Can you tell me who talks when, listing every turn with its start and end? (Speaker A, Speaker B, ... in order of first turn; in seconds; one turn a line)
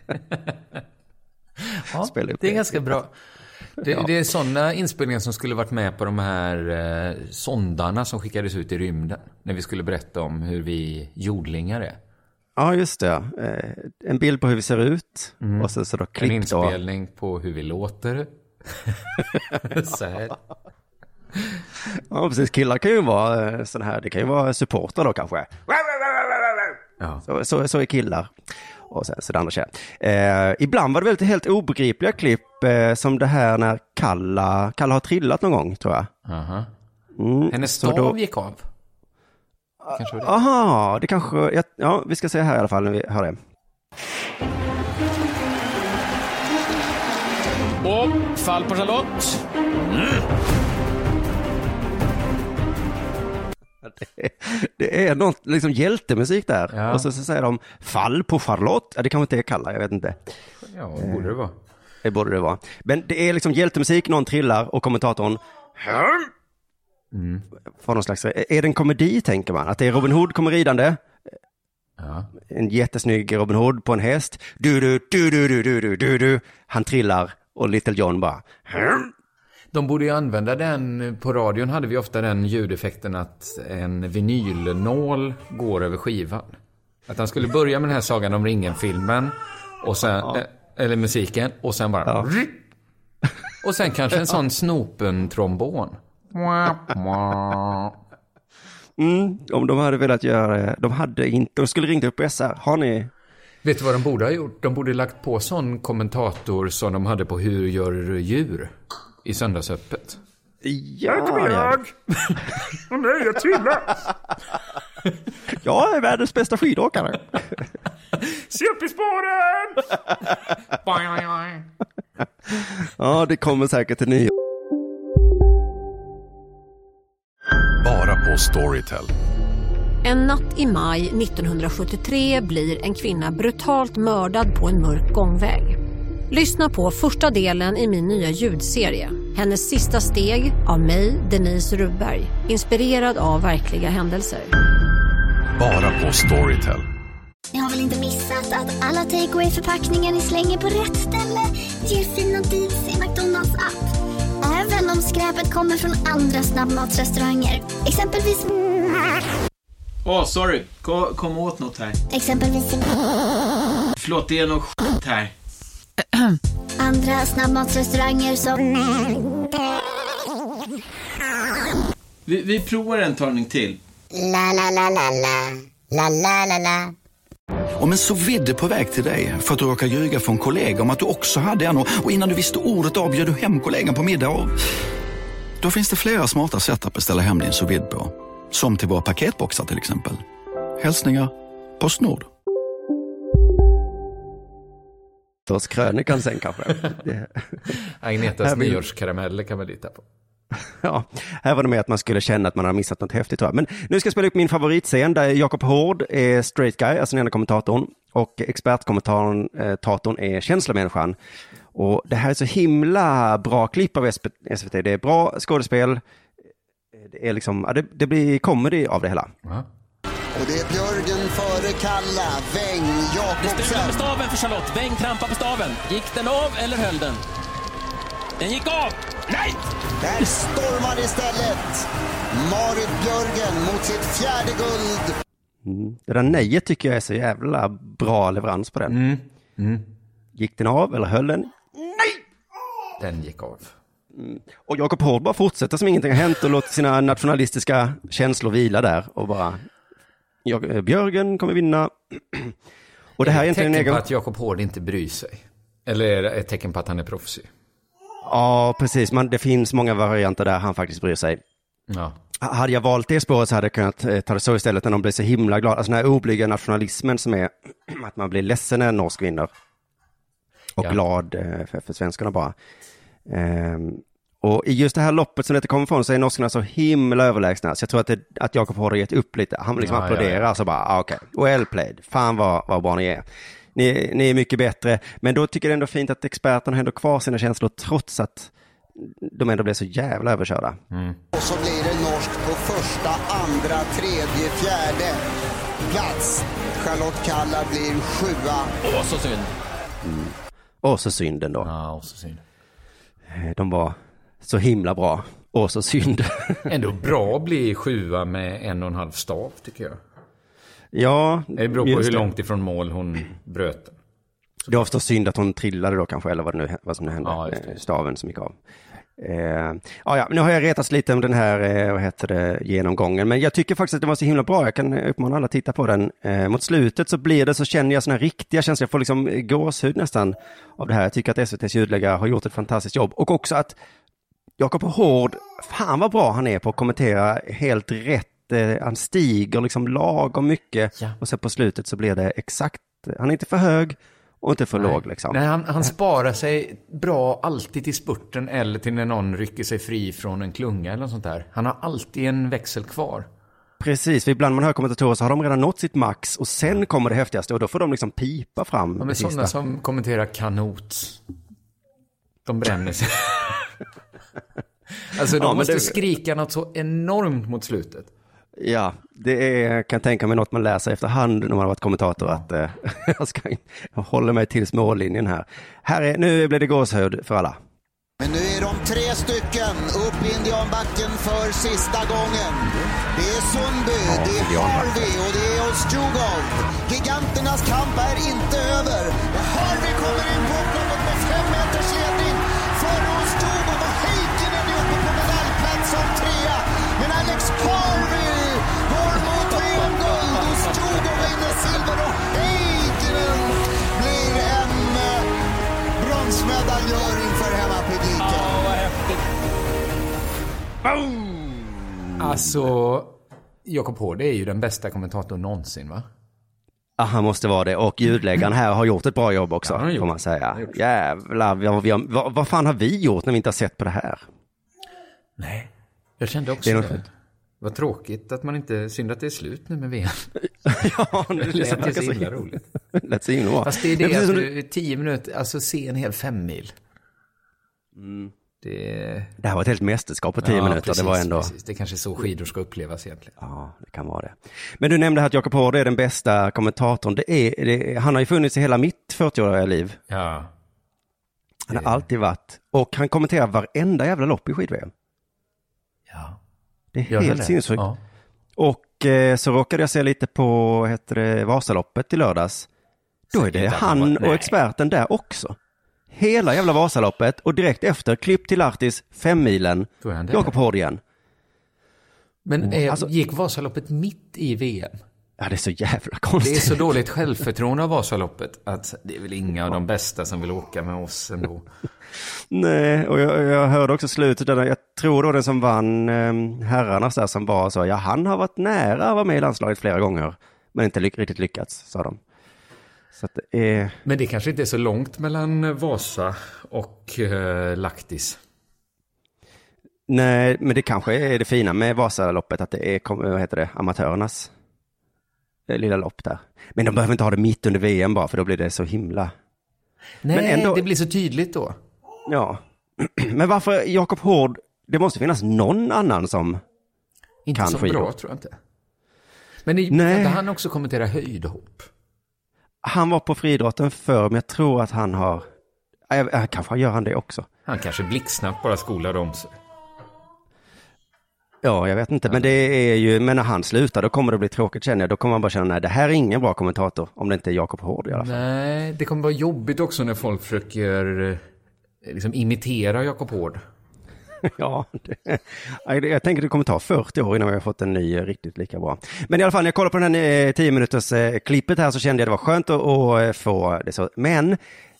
Speaker A: 1.6-3.1
Speaker B: 2.0-2.8
Speaker A: 3.8-12.0
Speaker B: 12.6-16.8
Speaker A: 15.4-18.3
Speaker A: 18.8-20.4
Speaker B: 22.0-28.3
Speaker B: 28.9-36.1
Speaker A: 36.2-36.7
Speaker B: 37.1-38.1
Speaker A: 37.5-38.6
Speaker B: 39.9-43.4
Speaker A: 39.9-40.3
Speaker C: 47.8-49.4
Speaker B: 53.8-60.2
Speaker A: 56.7-57.1
Speaker A: 60.7-61.5
Speaker B: 61.0-61.3
Speaker B: 62.0-66.3
Speaker A: 67.1-67.4
Speaker B: 67.8-71.0
Speaker A: 72.0-72.3
Speaker B: 72.5-79.1
Speaker A: 79.7-86.5
Speaker A: 87.1-92.6
Speaker A: 93.6-98.0
Speaker B: 99.0-103.1
Speaker A: 103.6-108.7
Speaker A: 109.2-110.2
Speaker B: 110.6-111.8
Speaker A: 111.1-114.0
Speaker B: 115.5-117.5
Speaker A: 118.2-119.8
Speaker A: 120.7-121.6
Speaker B: 122.5-124.3
Speaker D: 127.8-129.1
Speaker E: 130.0-135.8
Speaker E: 136.3-144.5
Speaker D: 145.6-146.8
Speaker F: 147.5-153.8
Speaker F: 154.4-158.5
Speaker G: 160.0-162.0
Speaker F: 162.1-163.0
Speaker G: 164.0-165.3
Speaker F: 166.8-169.2
Speaker G: 172.3-173.8
Speaker F: 174.1-176.9
Speaker H: 177.8-184.6
Speaker H: 185.6-190.2
Speaker H: 190.8-192.3
Speaker B: 195.5-197.4
Speaker A: 197.8-200.0
Speaker B: 198.4-198.8
Speaker B: 200.8-211.2
Speaker B: 211.7-216.0
Speaker B: 216.9-219.3
Speaker I: 220.3-224.0
Speaker C: 223.4-227.2
Speaker C: 228.4-229.6
Speaker I: 230.0-235.1
Speaker B: 235.6-239.0
Speaker A: 238.9-239.9
Speaker B: 240.3-242.2
Speaker A: 243.0-243.7
Speaker B: 244.1-249.6
Speaker B: 250.4-252.5
Speaker B: 253.2-254.0
Speaker A: 253.2-257.5
Speaker B: 258.2-261.4
Speaker A: 261.9-262.2
Speaker B: 262.4-269.5
Speaker B: 270.8-272.5
Speaker B: 273.3-283.2
Speaker A: 279.8-280.4
Speaker B: 283.7-290.8
Speaker A: 290.9-291.2
Speaker I: 291.3-295.2
Speaker I: 295.9-298.7
Speaker C: 298.8-299.5
Speaker B: 300.0-301.7
Speaker A: 301.6-302.4
Speaker B: 303.3-306.7
Speaker A: 306.7-310.0
Speaker B: 310.9-312.3
Speaker A: 311.6-313.9
Speaker B: 314.7-318.5
Speaker A: 317.2-317.8
Speaker B: 319.2-333.8
Speaker B: 334.6-345.4
Speaker A: 344.8-353.3
Speaker B: 353.8-359.5
Speaker A: 359.0-361.2
Speaker A: 362.4-363.6
Speaker A: 365.0-368.1
Speaker B: 365.4-365.9
Speaker B: 368.6-377.6
Speaker I: 378.2-405.2
Speaker B: 384.0-385.1
Speaker C: 399.4-401.3
Speaker I: 406.0-408.5
Speaker C: 408.2-409.2
Speaker B: 410.8-412.3
Speaker A: 412.2-416.0
Speaker B: 417.0-424.2
Speaker A: 419.6-420.8
Speaker A: 425.4-427.1
Speaker B: 426.6-427.0
Speaker A: 427.6-430.3
Speaker B: 430.6-434.5
Speaker A: 431.4-432.6
Speaker A: 433.6-436.7
Speaker B: 437.9-438.3
Speaker A: 438.6-439.3
Speaker B: 439.4-441.5
Speaker A: 440.4-443.3
Speaker B: 443.4-450.0
Speaker A: 450.1-450.5
Speaker B: 451.7-454.9
Speaker A: 451.7-452.0
Speaker A: 456.1-456.4
Speaker B: 456.9-457.8
Speaker A: 457.1-458.0
Speaker B: 458.6-462.7
Speaker A: 463.3-464.5
Speaker B: 463.3-465.6
Speaker B: 466.1-471.0
Speaker A: 470.0-470.5
Speaker A: 472.4-475.0
Speaker B: 472.6-473.1
Speaker B: 475.4-476.8
Speaker A: 476.4-481.7
Speaker B: 482.5-492.2
Speaker B: 493.1-493.9
Speaker A: 494.0-498.4
Speaker B: 500.1-504.5
Speaker B: 505.7-509.3
Speaker A: 510.2-511.8
Speaker B: 510.3-510.8
Speaker B: 512.3-516.6
Speaker A: 517.5-518.5
Speaker B: 517.5-518.1
Speaker A: 519.6-521.9
Speaker B: 519.9-520.4
Speaker B: 522.8-525.4
Speaker B: 526.1-527.5
Speaker A: 527.6-529.5
Speaker B: 531.6-538.4
Speaker A: 538.1-541.4
Speaker A: 542.0-543.6
Speaker B: 544.4-554.6